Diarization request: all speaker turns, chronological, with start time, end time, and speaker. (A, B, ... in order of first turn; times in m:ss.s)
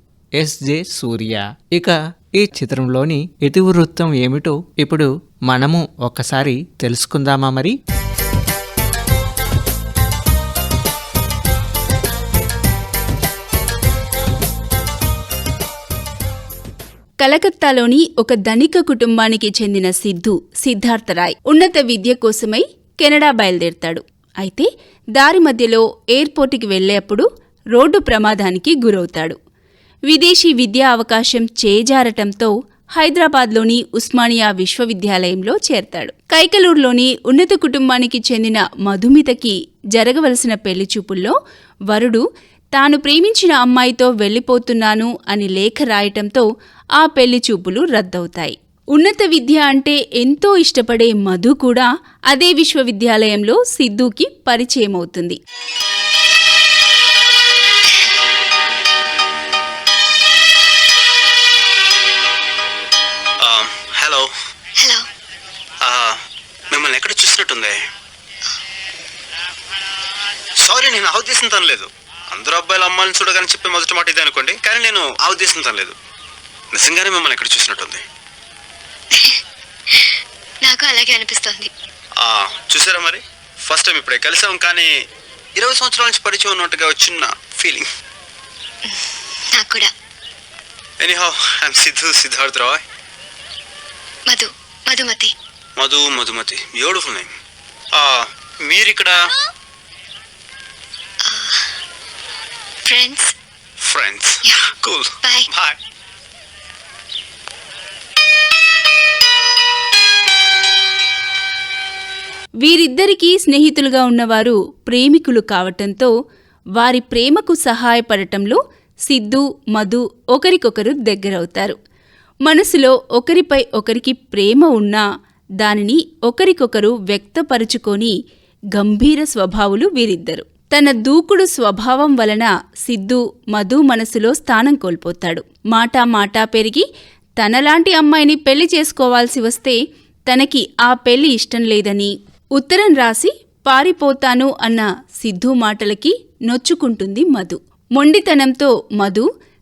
0:00.4-0:07.7 A
0:17.2-0:29.4 B
0:30.1-0:41.3 B
0:41.9-0:42.2 B
0:42.7-0:46.4 B
0:47.0-0:55.4 B
1:03.4-1:04.3 C
1:05.8-1:06.2 C
1:06.7-1:07.8 C
1:10.6-1:15.9 C
1:16.7-1:18.0 C
1:20.6-1:21.7 D
1:22.2-1:25.0 C
1:25.6-1:27.8 C
1:29.5-1:29.9 D
1:31.0-1:32.8 C
1:34.3-1:35.3 D
1:35.8-1:37.3 C
1:37.9-1:39.3 C
1:41.3-1:41.5 D
1:42.9-1:43.3 D
1:43.8-1:45.8 C
1:52.6-1:56.1 B
1:56.8-2:01.8 B
2:02.4-2:05.0 B
2:05.6-2:08.1 B
2:08.7-2:16.8 B
2:17.4-2:29.3 B